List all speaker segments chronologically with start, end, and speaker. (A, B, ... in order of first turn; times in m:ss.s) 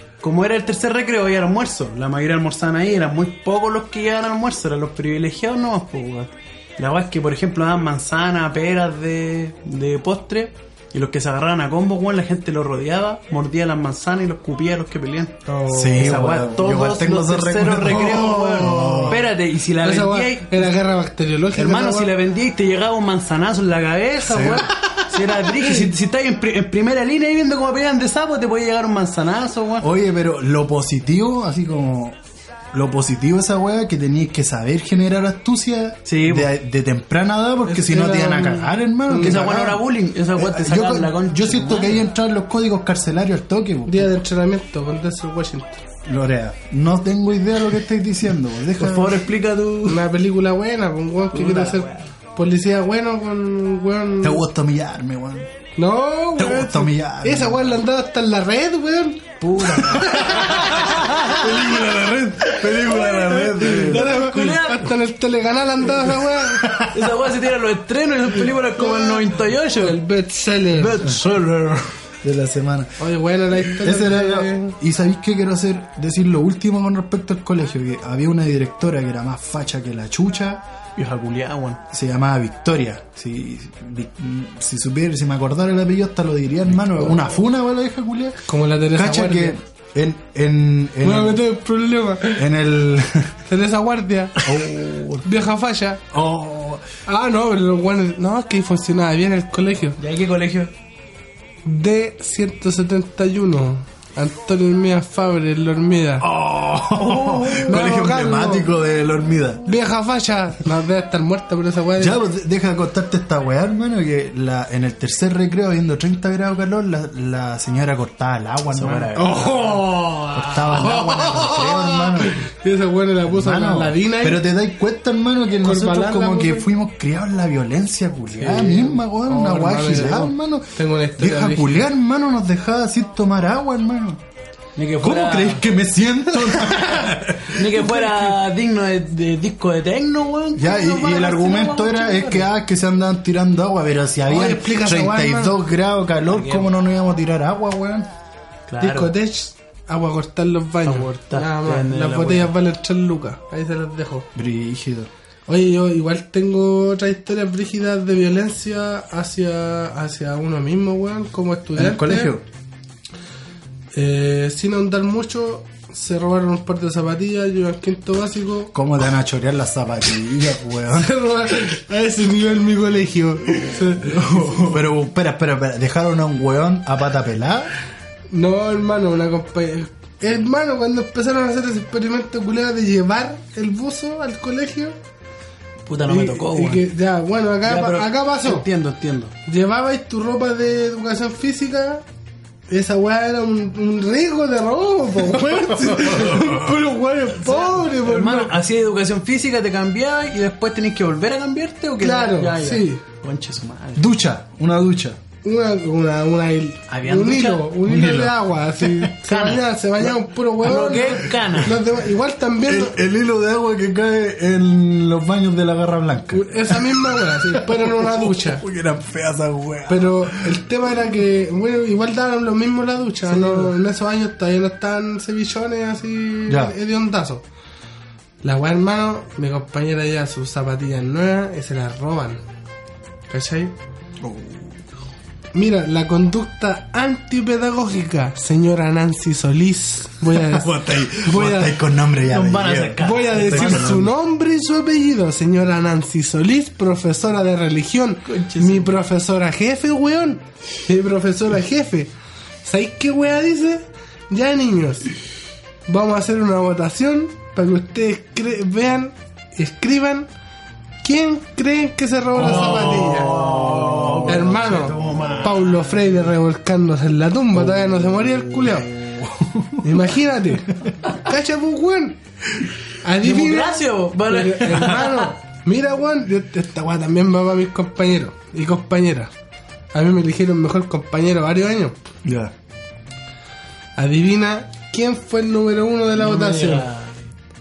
0:00.2-0:20.8 A
0:15.5-0:16.3 B
0:15.7-0:19.2 C
0:17.9-0:19.2 B
0:19.8-0:22.1 B
0:21.5-0:29.9 A
0:24.2-0:24.7 C
0:24.9-0:25.8 B
0:29.8-0:32.2 C
0:32.7-0:39.8 C
0:36.1-0:36.5 A
0:37.6-0:39.4 B
0:39.2-0:42.1 A
0:40.4-0:44.1 C
0:43.9-0:45.8 B
0:46.0-0:49.2 C
0:48.8-0:50.1 A
0:49.9-0:54.5 B
0:51.3-0:52.1 A
0:54.2-0:55.5 C
0:55.8-1:06.6 B
0:56.4-0:57.8 C
0:59.4-1:01.8 A
0:59.8-1:04.1 C
1:03.5-1:04.9 A
1:06.4-1:07.1 C
1:06.9-1:10.0 A
1:08.7-1:11.1 B
1:10.7-1:11.9 A
1:12.2-1:13.0 C
1:13.0-1:14.8 B
1:13.6-1:20.6 C
1:21.0-1:21.8 A
1:21.9-1:31.4 C
1:28.5-1:29.6 B
1:31.0-1:32.4 B
1:32.4-1:33.4 C
1:33.5-1:34.5 B
1:34.4-1:35.3 C
1:35.2-1:36.0 B
1:36.1-1:36.8 C
1:37.1-1:40.0 B
1:40.0-1:40.7 A
1:41.6-1:46.3 B
1:46.2-1:49.6 C
1:47.0-1:48.1 A
1:47.6-1:48.7 B
1:49.7-1:52.2 B
1:52.0-1:59.2 C
1:58.7-1:59.6 A
1:59.2-2:04.5 B
2:00.3-2:02.4 C
2:03.3-2:14.2 C
2:05.6-2:06.7 B
2:08.3-2:09.0 A
2:09.2-2:11.9 B
2:14.8-2:15.6 A
2:15.0-2:17.8 C
2:16.6-2:17.2 B
2:17.5-2:22.5 A
2:17.7-2:18.3 B
2:20.6-2:28.1 C
2:24.3-2:25.6 B
2:26.3-2:26.7 A
2:28.7-2:29.2 A
2:28.8-2:34.3 B
2:30.8-2:32.5 A
2:34.4-2:35.1 C
2:35.5-2:42.3 B
2:41.8-2:42.4 C
2:43.9-2:48.8 B
2:48.7-2:51.2 C
2:50.9-2:54.8 B
2:54.2-2:57.7 C
2:58.3-3:05.0 B
3:05.9-3:06.9 A
3:06.1-3:08.7 B
3:07.6-3:09.3 A
3:09.5-3:12.0 B
3:12.7-3:18.5 B
3:15.7-3:16.7 C
3:17.4-3:24.1 A
3:22.0-3:23.0 B
3:24.0-3:25.2 C
3:25.4-3:33.0 B
3:26.9-3:27.7 A
3:27.8-3:29.2 C
3:29.3-3:29.7 A
3:30.6-3:31.8 A
3:32.6-3:40.6 C
3:36.3-3:38.6 B
3:39.9-3:47.4 B
3:43.3-3:43.7 C
3:46.5-3:46.8 C
3:48.4-3:52.4 B
3:53.3-3:53.8 B
3:54.2-3:54.7 C
3:55.5-4:01.8 B
4:00.3-4:04.1 C
4:02.2-4:04.1 A
4:03.0-4:12.1 B
4:08.3-4:09.0 A
4:12.6-4:15.1 B
4:15.9-4:20.3 B
4:21.0-4:23.4 B
4:22.4-4:26.2 A
4:22.4-4:25.4 C
4:24.3-4:28.9 B
4:27.6-4:30.1 C
4:29.8-4:32.2 B
4:33.0-4:39.3 B
4:33.2-4:35.3 A
4:39.9-4:42.0 B
4:42.2-4:42.5 C
4:44.0-4:46.9 B
4:46.2-4:47.2 A